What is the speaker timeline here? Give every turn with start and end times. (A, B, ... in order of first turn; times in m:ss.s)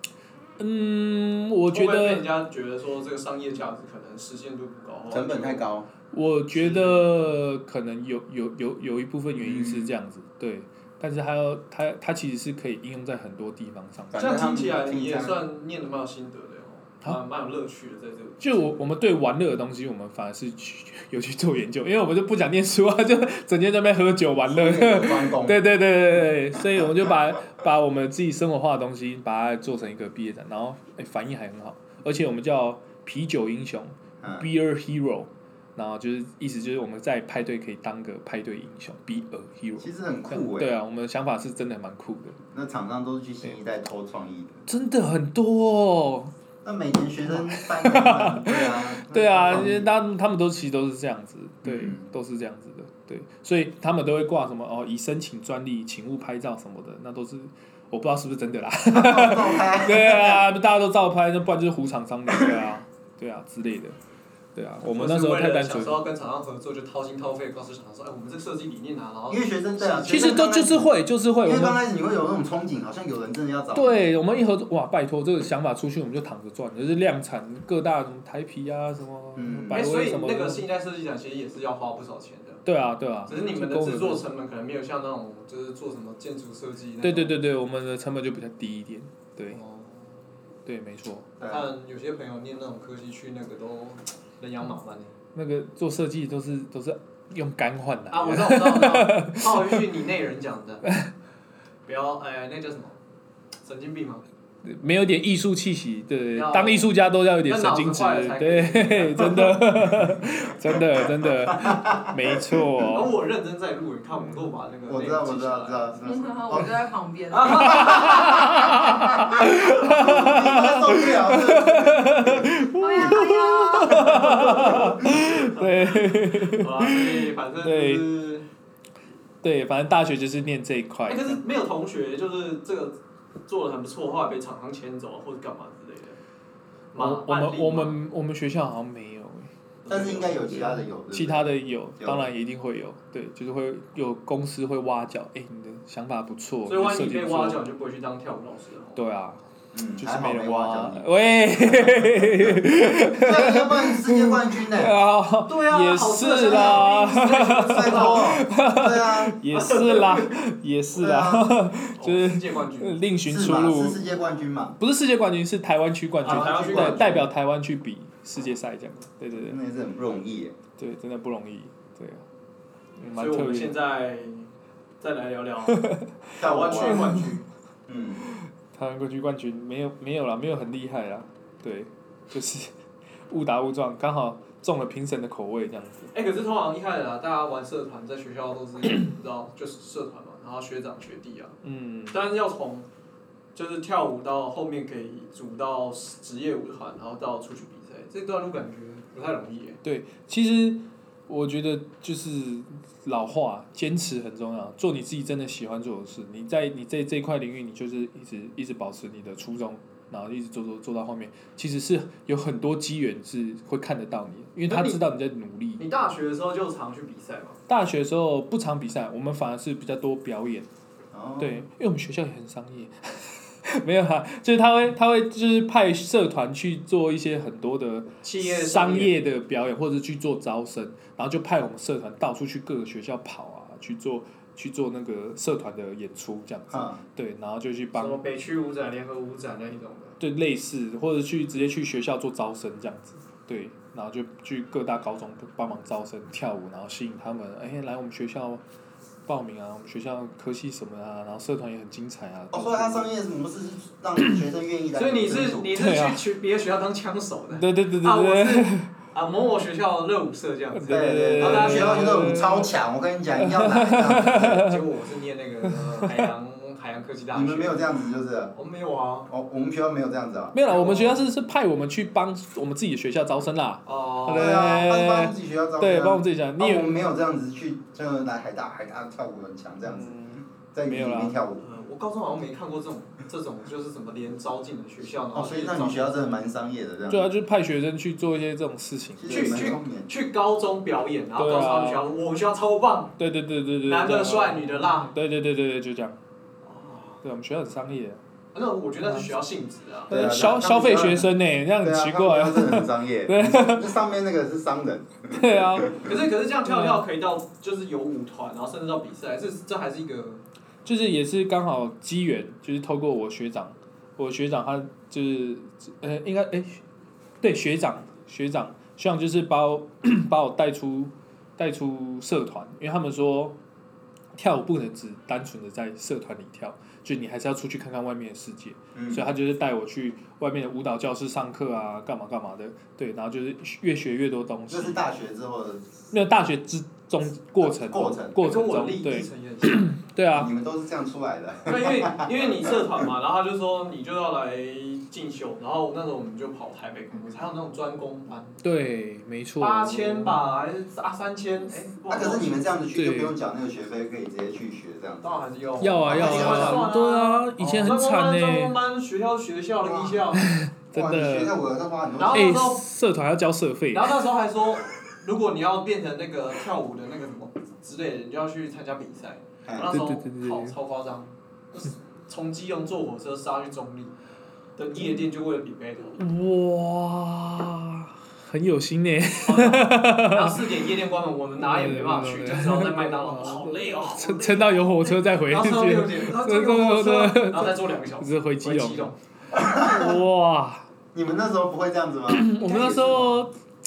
0:00.6-0:02.3 A
0:01.7-0:05.6 B
0:05.1-0:05.9 C
0:06.1-0:14.2 A
0:06.5-0:07.0 C
0:09.4-0:09.9 C
0:14.1-0:15.4 C
0:14.1-0:18.6 B
0:18.4-0:42.4 A
0:24.4-0:25.6 C
0:34.2-0:34.5 C
0:39.8-0:40.7 C
0:42.5-0:44.6 C
0:44.7-0:46.3 A
0:46.6-0:49.9 C
0:47.2-1:04.0 A
0:51.6-0:52.0 C
0:58.9-1:00.5 C
1:04.5-1:06.0 A
1:04.8-1:10.3 B
1:09.3-1:14.0 C
1:10.0-1:11.8 A
1:13.7-1:20.6 A
1:19.4-1:19.8 C
1:19.7-1:22.6 B
1:22.6-1:24.2 A
1:23.2-1:27.4 B
1:27.0-1:29.6 A
1:29.5-1:30.2 B
1:30.6-1:31.3 A
1:31.4-1:31.7 C
1:31.4-1:35.1 B
1:35.3-1:39.8 A
1:38.1-1:40.9 B
1:41.8-1:43.0 B
1:43.6-1:44.2 B
1:44.6-1:53.1 A
1:46.3-1:46.9 B
1:47.4-1:49.6 B
1:51.2-1:52.7 C
1:52.9-1:56.0 B
1:54.9-1:57.0 C
1:56.1-1:57.5 D
1:57.2-1:58.7 B
1:57.5-2:08.1 A
1:57.6-2:03.2 C
2:02.8-2:04.0 D
2:03.8-2:05.0 C
2:04.0-2:08.4 B
2:09.4-2:11.4 A
2:11.0-2:16.2 B
2:16.9-2:18.0 B
2:16.9-2:19.5 A
2:19.8-2:20.4 B
2:19.9-2:22.3 C
2:20.3-2:27.6 A
2:26.6-2:29.0 B
2:29.0-2:29.4 A
2:29.7-2:31.1 C
2:30.0-2:44.0 A
2:31.6-2:35.0 C
2:35.5-2:38.4 B
2:36.4-2:36.9 C
2:37.6-2:39.4 C
2:39.5-2:40.3 B
2:40.9-2:41.6 C
2:41.9-2:43.1 B
2:43.2-2:44.8 C
2:44.8-2:49.6 A
2:46.2-2:47.2 B
2:46.2-2:47.3 C
2:49.4-2:50.5 C
2:50.8-2:52.2 A
2:53.0-2:53.8 A
2:53.2-2:54.5 B
2:55.0-2:55.8 B
2:55.7-2:57.3 A
2:56.4-2:57.4 B
2:56.4-2:57.2 C
2:57.9-2:58.2 C
2:58.7-3:02.7 A
3:03.3-3:06.1 A
3:06.1-3:11.5 B
3:11.6-3:12.3 A
3:12.1-3:12.8 B
3:13.5-3:19.8 B
3:19.8-3:35.8 A
3:34.7-3:35.0 B
3:35.8-3:37.6 B
3:37.7-3:40.7 A
3:41.1-3:41.6 C
3:41.4-3:58.2 A
3:48.2-3:49.1 B
3:56.7-3:57.0 C
3:57.9-4:00.2 B
4:00.2-4:08.6 A
4:09.3-4:13.1 A
4:12.5-4:15.7 C
4:14.2-4:14.4 A
4:14.9-4:22.2 B
4:15.7-4:16.2 A
4:17.5-4:18.9 A
4:20.7-4:22.7 A
4:20.9-4:24.6 C
4:23.4-4:24.8 A
4:24.5-4:27.9 B
4:25.7-4:26.3 A
4:27.3-4:28.5 C
4:28.5-4:29.3 B
4:29.3-4:30.6 C
4:30.5-4:37.0 A
4:30.7-4:31.2 B
4:33.8-4:34.7 B
4:34.3-4:41.6 C
4:39.8-4:41.4 A
4:41.6-4:46.4 B
4:45.3-4:47.3 C
4:47.1-4:49.8 A
4:49.2-4:50.1 C
4:49.3-4:53.2 B
4:51.4-4:52.0 A
4:53.2-4:56.2 A
4:53.8-4:55.1 B
4:56.6-4:57.2 B
4:57.2-4:58.2 A
4:58.5-5:00.3 B
4:59.0-4:59.3 A
5:00.1-5:01.3 C
5:00.1-5:04.0 A
5:01.8-5:06.0 C
5:05.3-5:06.0 A
5:06.0-5:10.4 B
5:06.6-5:07.0 A
5:10.8-5:16.8 A
5:17.4-5:23.6 A
5:24.3-5:35.0 A
5:28.9-5:29.3 C
5:34.7-5:35.9 C
5:36.1-5:40.5 A
5:37.6-5:38.4 C
5:38.4-5:39.9 B
5:40.3-5:42.7 C
5:41.6-5:48.6 B
5:48.6-5:50.5 A
5:49.6-5:52.6 B
5:52.1-5:55.4 C
5:52.9-5:53.3 A
5:55.2-6:00.4 B
5:55.8-5:58.8 A
5:56.1-5:56.9 C
5:59.9-6:00.2 C
6:00.3-6:01.5 A
6:00.9-6:02.6 C
6:02.2-6:02.8 B
6:02.3-6:04.2 A
6:03.9-6:14.1 B
6:09.6-6:09.9 C
6:09.9-6:10.8 A
6:14.8-6:16.2 B
6:16.2-6:20.8 A
6:19.4-6:29.2 B
6:21.6-6:30.9 A
6:29.5-6:30.2 C
6:31.1-6:33.4 C
6:32.3-6:33.5 A